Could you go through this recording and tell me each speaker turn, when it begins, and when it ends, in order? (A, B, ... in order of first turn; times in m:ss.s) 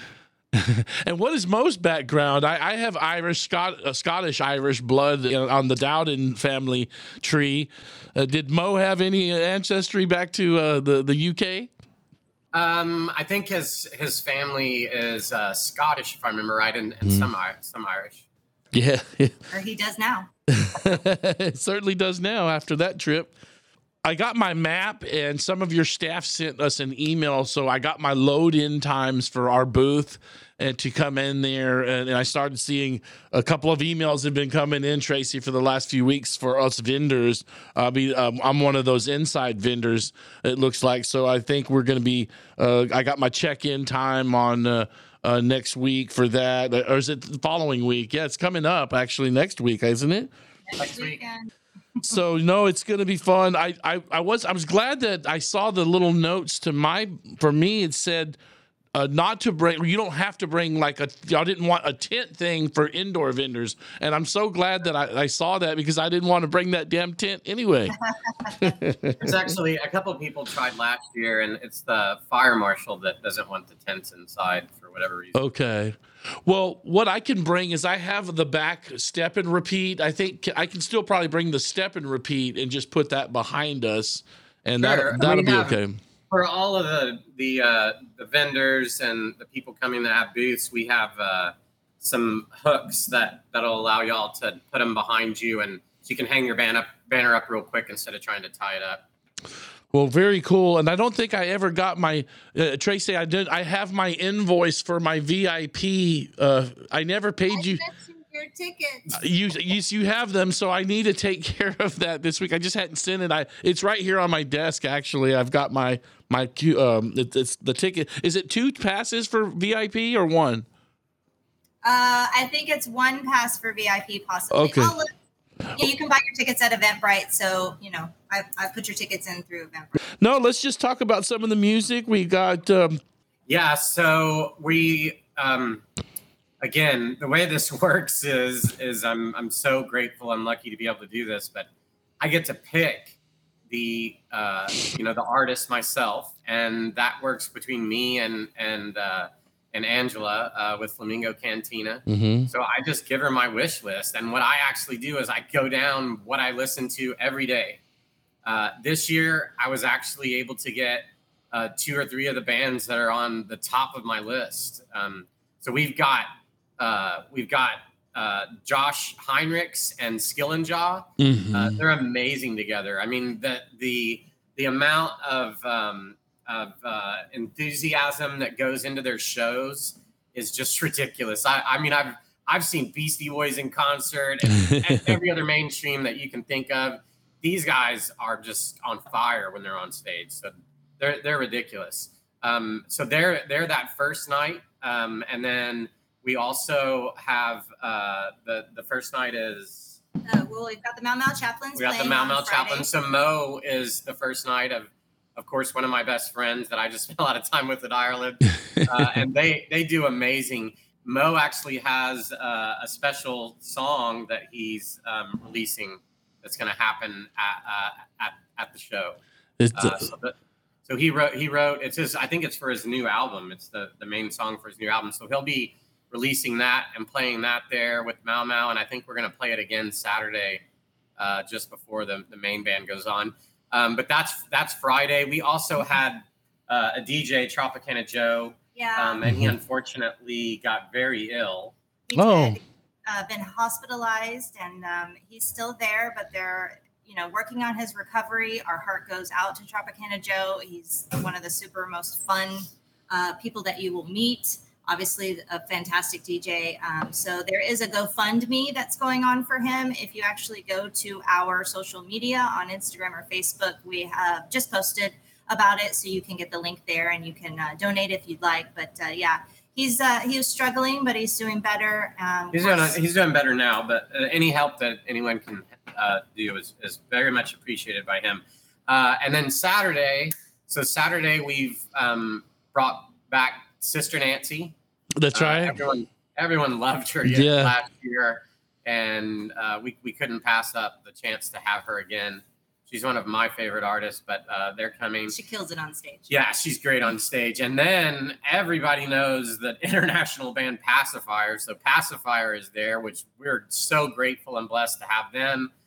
0:00.5-0:11.7 A
0:12.5-0:18.2 B
0:18.7-0:19.4 A
0:19.5-0:20.3 C
0:20.5-0:23.3 A
0:24.0-0:50.3 A
0:50.7-0:51.5 C
0:50.8-0:51.2 B
0:52.0-0:58.4 A
0:58.9-1:08.0 A
1:08.6-1:09.3 A
1:09.2-1:15.4 B
1:15.3-1:26.0 A
1:24.8-1:25.8 B
1:26.3-1:39.0 B
1:39.9-1:47.8 A
1:47.5-1:49.1 C
1:49.1-2:00.7 A
2:01.8-2:05.1 C
2:04.5-2:04.9 A
2:05.7-2:10.0 C
2:10.2-2:13.0 A
2:13.5-2:15.8 B
2:16.6-2:21.7 B
2:22.2-2:23.2 B
2:23.7-2:37.8 B
2:32.1-2:32.5 A
2:38.4-3:20.0 B
2:51.2-2:51.8 A
3:20.2-3:22.9 C
3:21.8-3:39.2 B
3:39.6-3:40.0 A
3:39.7-3:40.3 B
3:40.9-3:50.6 B
3:51.2-4:01.7 B
3:58.8-3:59.2 C
4:02.1-4:33.0 C
4:02.1-4:02.6 A
4:32.5-4:44.7 B
4:45.2-4:45.8 A
4:45.3-4:55.3 B
4:47.2-4:47.7 A
4:55.3-4:56.3 C
4:56.3-5:05.7 B